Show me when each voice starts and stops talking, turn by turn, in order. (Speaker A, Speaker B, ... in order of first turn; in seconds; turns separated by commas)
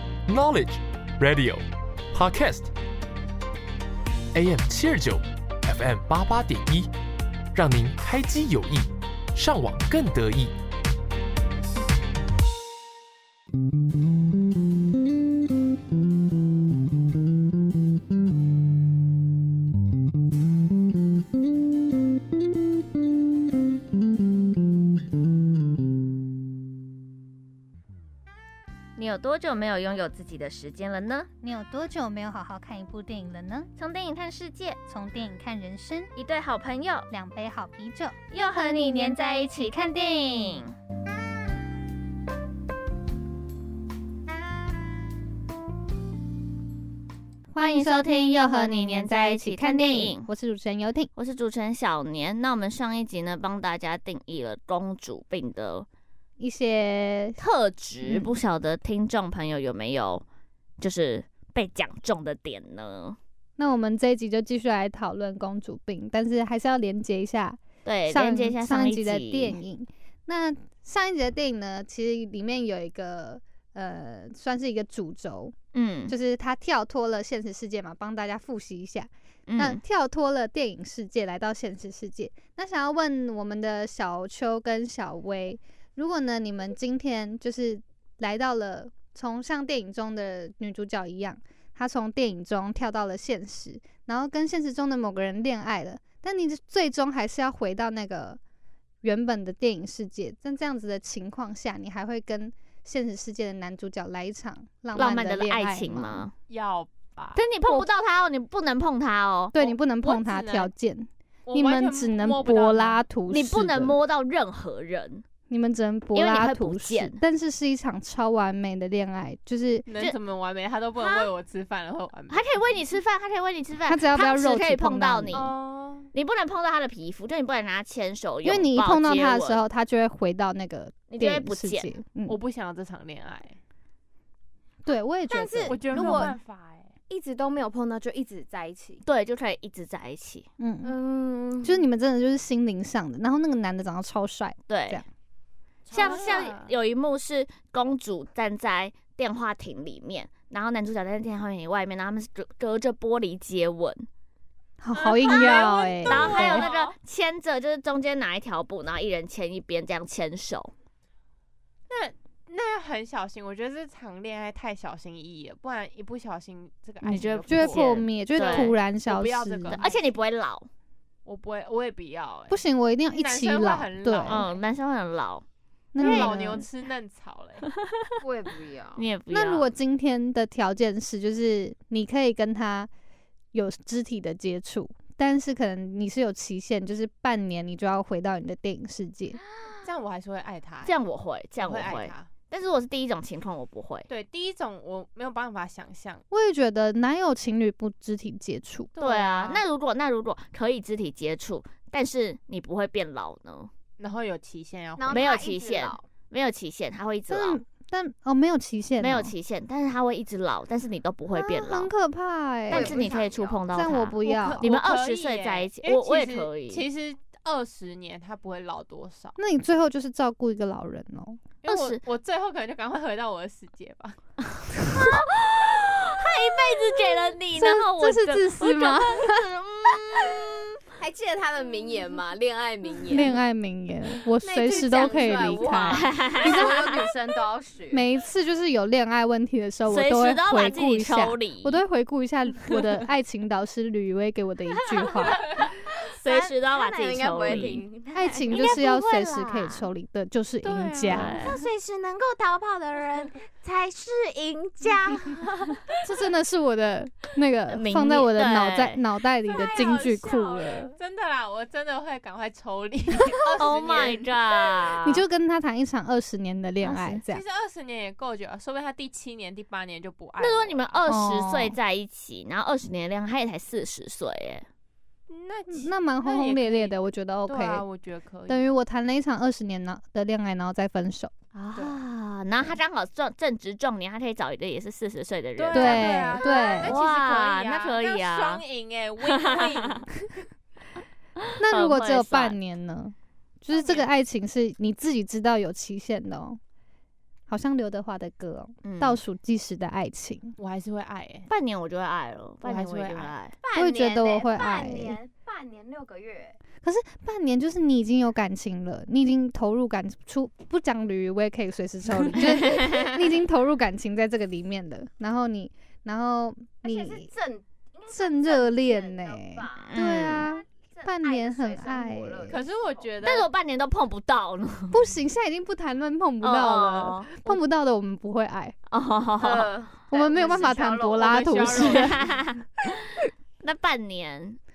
Speaker A: 0.3-1.6, Speaker A: 2.1-2.7, Speaker A: 4.3-6.9, Speaker A: 7.5-10.5, Speaker B: 29.0-31.3, Speaker C: 31.4-33.7, Speaker B: 33.8-34.8, Speaker C: 34.9-36.1, Speaker B: 36.2-37.1, Speaker C: 37.1-38.2, Speaker B: 38.3-40.8, Speaker C: 47.5-51.1, Speaker B: 47.6-50.3, Speaker B: 51.2-55.9, Speaker C: 56.4-57.4, Speaker B: 57.4-60.2, Speaker B: 60.8-63.2, Speaker C: 63.6-75.5, Speaker B: 67.8-69.6, Speaker B: 75.7-76.1, Speaker C: 76.1-98.4, Speaker B: 79.5-79.8, Speaker C: 99.0-106.3, Speaker B: 105.0-106.3, Speaker D: 106.5-107.8, Speaker B: 107.3-109.5, Speaker C: 109.5-114.0, Speaker D: 109.6-110.7, Speaker D: 111.5-113.1, Speaker B: 113.3-115.2, Speaker C: 115.5-119.9, Speaker B: 116.2-117.2, Speaker D: 119.9-122.8, Speaker B: 122.3-125.5, Speaker C: 123.9-125.5, Speaker D: 125.3-126.1, Speaker B: 126.1-129.6, Speaker C: 128.4-132.4, Speaker B: 131.1-131.9, Speaker D: 132.3-133.6, Speaker C: 134.8-136.4, Speaker E: 135.3-136.4, Speaker D: 135.6-136.9, Speaker E: 137.1-139.0, Speaker B: 139.1-140.5, Speaker C: 140.6-140.9, Speaker E: 140.8-141.9, Speaker C: 141.6-145.1, Speaker B: 144.7-145.0, Speaker D: 145.9-146.7, Speaker B: 145.9-154.1, Speaker C: 154.8-156.7, Speaker D: 154.9-156.9, Speaker B: 155.3-160.7, Speaker D: 161.9-170.0, Speaker B: 167.0-168.8, Speaker C: 167.1-169.9, Speaker B: 169.7-170.7, Speaker D: 171.3-174.6, Speaker C: 172.5-174.4, Speaker B: 174.3-175.4, Speaker C: 175.9-176.7, Speaker D: 176.0-177.7, Speaker B: 176.0-176.3, Speaker E: 178.2-179.1, Speaker B: 179.0-179.7, Speaker C: 179.3-182.9, Speaker C: 183.5-189.4, Speaker D: 189.8-190.9, Speaker B: 190.8-194.1, Speaker D: 191.6-192.3, Speaker D: 194.1-196.2, Speaker C: 196.3-198.9, Speaker D: 198.9-199.6, Speaker B: 199.0-203.7, Speaker D: 204.0-205.3, Speaker E: 205.0-206.1, Speaker B: 205.1-207.6, Speaker C: 207.3-209.3, Speaker B: 209.0-211.9, Speaker C: 211.3-213.0, Speaker B: 212.7-216.8, Speaker E: 212.7-213.6, Speaker C: 213.7-214.6, Speaker D: 214.3-219.4, Speaker C: 219.4-221.4, Speaker D: 221.6-224.2, Speaker B: 221.7-222.0, Speaker B: 224.9-230.7, Speaker C: 227.6-229.4, Speaker E: 231.0-233.4, Speaker C: 233.1-236.9, Speaker E: 234.4-238.0, Speaker B: 235.9-236.9, Speaker C: 237.9-245.5, Speaker B: 239.9-241.8, Speaker E: 246.1-248.8, Speaker B: 246.2-247.8, Speaker C: 247.5-251.4, Speaker B: 248.5-249.9, Speaker D: 250.6-251.4, Speaker B: 251.1-251.6, Speaker E: 251.4-255.4, Speaker C: 256.0-260.9, Speaker B: 257.7-259.0, Speaker D: 259.4-264.6, Speaker E: 259.6-259.9, Speaker B: 263.4-265.2, Speaker C: 265.0-267.4, Speaker B: 266.8-267.2, Speaker D: 267.2-271.1, Speaker B: 270.4-274.7, Speaker C: 271.1-271.8, Speaker D: 275.3-278.7, Speaker C: 275.7-277.8, Speaker C: 278.5-281.3, Speaker B: 281.5-286.3, Speaker D: 285.6-290.4, Speaker C: 285.7-286.9, Speaker B: 286.8-288.6, Speaker B: 289.3-290.0, Speaker B: 291.4-292.6, Speaker C: 291.6-296.6, Speaker C: 297.5-300.6, Speaker B: 298.8-299.2, Speaker D: 300.6-301.5, Speaker B: 301.5-303.6, Speaker D: 302.6-303.3, Speaker E: 303.6-306.6, Speaker C: 303.7-305.2, Speaker C: 306.8-317.3, Speaker B: 312.4-313.1, Speaker E: 316.8-323.1, Speaker C: 318.1-322.6, Speaker B: 319.8-320.5, Speaker D: 322.5-323.5, Speaker B: 323.2-325.0, Speaker C: 324.9-328.7, Speaker B: 326.4-327.4, Speaker B: 328.9-329.7, Speaker E: 329.4-331.5, Speaker C: 330.1-332.2, Speaker D: 330.4-332.3, Speaker B: 331.7-332.6, Speaker B: 333.6-334.6